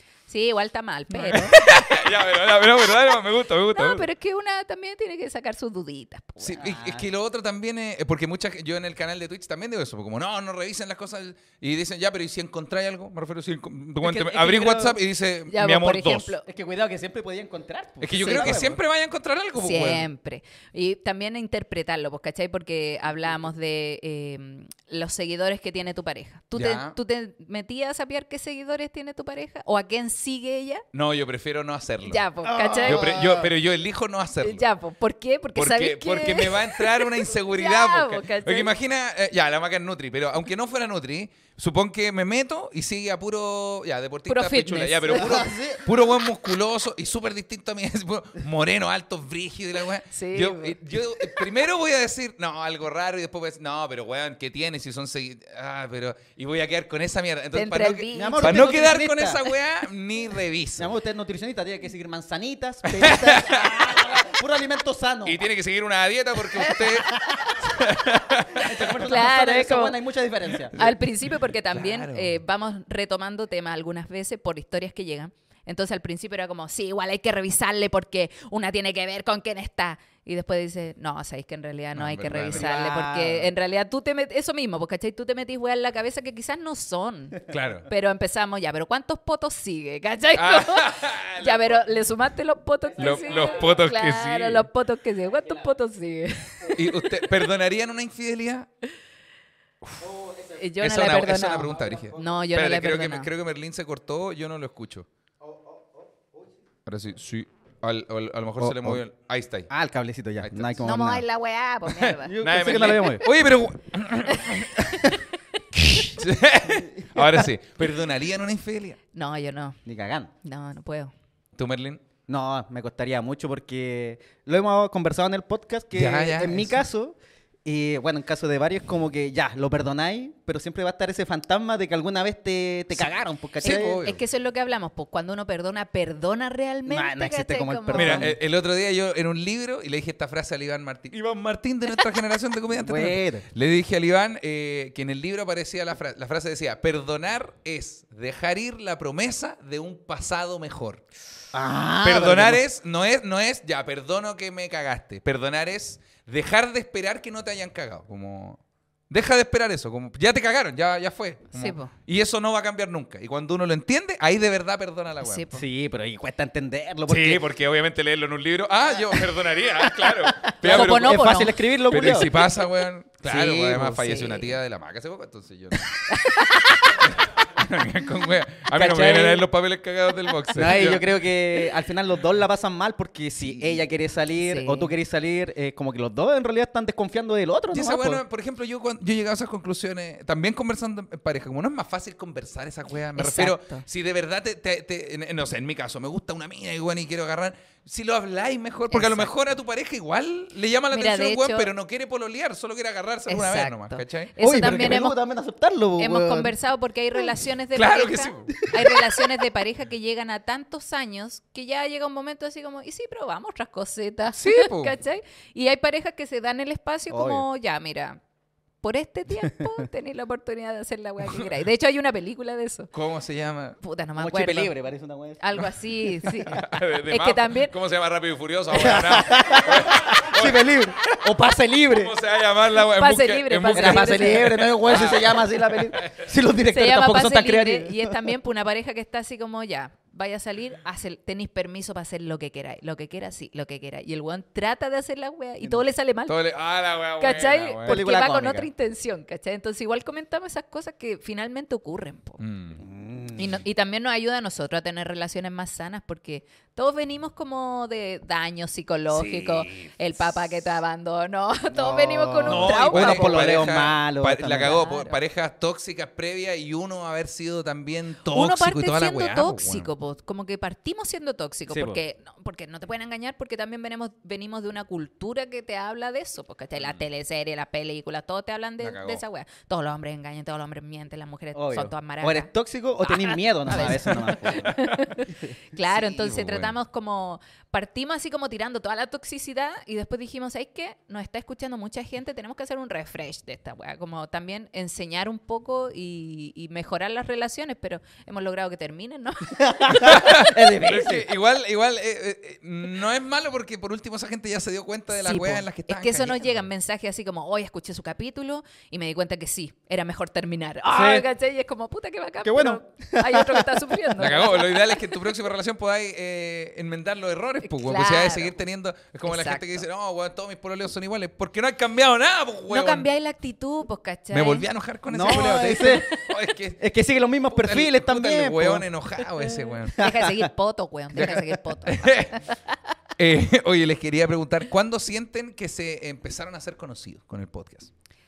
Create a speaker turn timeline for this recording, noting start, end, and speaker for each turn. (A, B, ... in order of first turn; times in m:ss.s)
0:00.3-0:01.8 A
0:01.1-0:04.1 B
0:03.7-0:06.7 A
0:06.4-0:16.3 B
0:06.6-0:07.1 C
0:14.0-0:15.0 C
0:15.5-0:16.4 A
0:16.5-0:18.8 C
0:18.0-0:20.1 B
0:18.2-0:18.6 A
0:19.6-0:30.8 A
0:26.6-0:27.0 B
0:30.9-0:32.2 B
0:32.1-0:33.2 A
0:32.4-0:33.5 C
0:32.8-0:34.6 B
0:34.4-0:38.7 A
0:35.6-1:00.9 B
0:44.3-0:45.4 A
0:45.1-0:45.9 C
0:50.1-0:51.4 A
0:57.5-0:58.8 A
0:58.1-0:59.4 C
1:00.8-1:05.4 C
1:02.9-1:04.2 B
1:05.2-1:08.9 B
1:06.6-1:07.5 A
1:08.5-1:10.8 C
1:09.1-1:10.0 A
1:10.7-1:11.0 B
1:10.8-1:37.1 A
1:11.7-1:12.4 B
1:22.0-1:22.7 B
1:22.5-1:23.5 C
1:27.5-1:27.9 B
1:30.4-1:31.8 B
1:33.0-1:33.7 C
1:33.0-1:34.7 B
1:36.7-1:38.7 B
1:40.0-1:40.6 C
1:40.6-1:43.3 A
1:40.8-1:45.1 B
1:41.7-1:42.4 C
1:45.4-1:46.4 C
1:46.9-1:49.7 B
1:48.6-1:49.0 C
1:49.7-1:51.2 C
1:50.4-1:50.8 B
1:50.8-1:52.3 A
1:51.9-1:55.2 B
1:52.3-1:53.2 C
1:54.9-1:55.2 A
1:55.8-1:59.0 B
1:59.1-1:59.8 A
1:59.8-2:00.3 C
2:00.4-2:01.1 A
2:01.6-2:02.0 B
2:02.3-2:14.0 C
2:05.9-2:06.8 B
2:12.9-2:14.2 B
2:13.6-2:18.3 A
2:16.9-2:18.4 C
2:17.9-2:31.0 B
2:22.8-2:23.4 C
2:31.5-2:32.6 C
2:32.0-2:45.5 B
2:41.5-2:41.9 A
2:45.2-2:45.6 A
2:45.5-2:47.4 C
2:47.1-2:56.0 B
2:49.8-2:52.5 C
2:50.6-2:51.6 A
2:53.2-2:54.0 C
2:53.9-2:54.6 A
2:56.1-2:57.0 A
2:57.0-3:01.1 B
2:58.7-2:59.4 C
3:00.5-3:08.2 C
3:04.4-3:04.9 A
3:07.7-3:24.3 B
3:13.2-3:13.8 A
3:18.9-3:19.3 A
3:20.9-3:21.7 A
3:23.3-3:25.2 A
3:24.4-3:26.5 C
3:26.0-3:38.2 A
3:27.7-3:28.7 B
3:28.7-3:29.0 C
3:34.3-3:35.0 B
3:37.1-3:37.4 C
3:38.8-3:42.9 A
3:42.9-3:43.8 B
3:43.8-3:44.7 A
3:44.2-3:45.4 C
3:45.4-3:47.7 A
3:46.5-3:51.3 B
3:48.7-3:52.1 C
3:51.9-3:56.3 B
3:52.9-3:54.6 A
3:53.7-3:58.2 C
3:56.7-4:06.4 A
4:06.3-4:08.0 B
4:07.2-4:12.4 A
4:07.9-4:08.7 C
4:12.4-4:12.8 B
4:12.8-4:13.6 C
4:13.4-4:23.6 A
4:19.1-4:19.9 B
4:21.7-4:24.8 C
4:22.5-4:29.9 B
4:24.6-4:25.2 A
4:28.3-4:42.5 A
4:31.7-4:32.0 C
4:38.8-4:39.2 B
4:41.5-4:44.8 C
4:43.0-5:00.4 A
4:43.8-4:44.7 B
4:46.2-4:46.7 B
4:59.6-5:01.3 C
5:00.0-5:06.6 B
5:05.2-5:15.0 A
5:10.9-5:11.2 C
5:12.4-5:14.1 C
5:14.2-5:23.1 B
5:17.6-5:18.5 A
5:19.3-5:19.8 A
5:22.7-5:24.7 A
5:24.3-5:26.8 B
5:25.1-5:26.1 C
5:25.3-5:26.0 A
5:26.8-5:30.5 C
5:27.5-5:30.0 B
5:29.9-5:32.8 A
5:31.2-5:31.4 C
5:31.2-5:32.4 B
5:33.2-5:37.9 B